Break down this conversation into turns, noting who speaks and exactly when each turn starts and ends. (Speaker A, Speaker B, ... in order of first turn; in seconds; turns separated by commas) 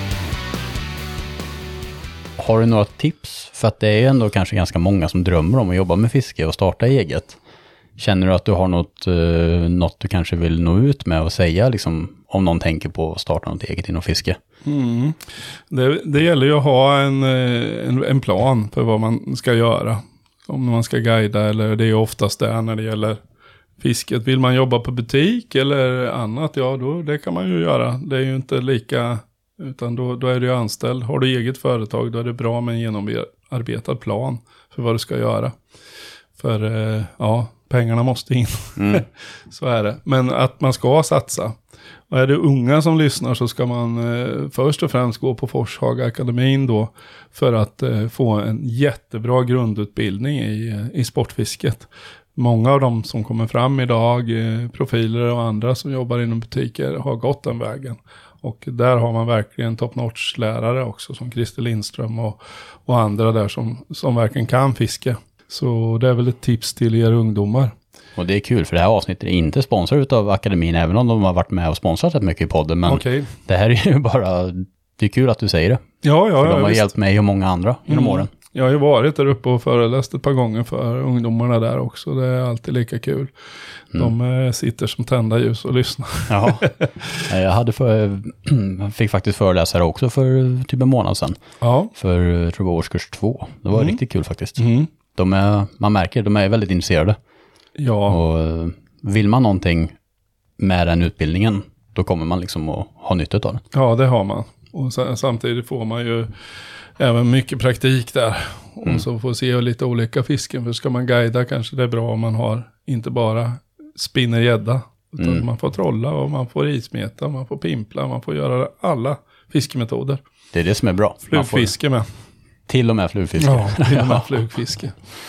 Speaker A: 2.4-7.4, Speaker A: 8.0-14.4, Speaker B: 14.6-23.2, Speaker B: 23.8-35.6, Speaker B: 36.4-67.7, Speaker A: 38.8-39.0, Speaker A: 68.2-75.8, Speaker B: 72.8-73.3, Speaker B: 76.0-76.9, Speaker A: 76.4-78.3, Speaker B: 77.9-83.3, Speaker B: 83.9-87.3, Speaker A: 86.3-86.7, Speaker A: 87.3-91.4, Speaker B: 91.6-91.9, Speaker A: 91.9-97.2, Speaker B: 93.7-94.0, Speaker B: 94.6-94.9, Speaker B: 97.8-98.2, Speaker A: 98.1-100.0, Speaker A: 100.6-103.6, Speaker B: 103.7-120.2, Speaker A: 115.2-115.5, Speaker A: 120.5-121.7, Speaker B: 121.3-122.1, Speaker A: 122.7-124.3, Speaker B: 123.4-124.9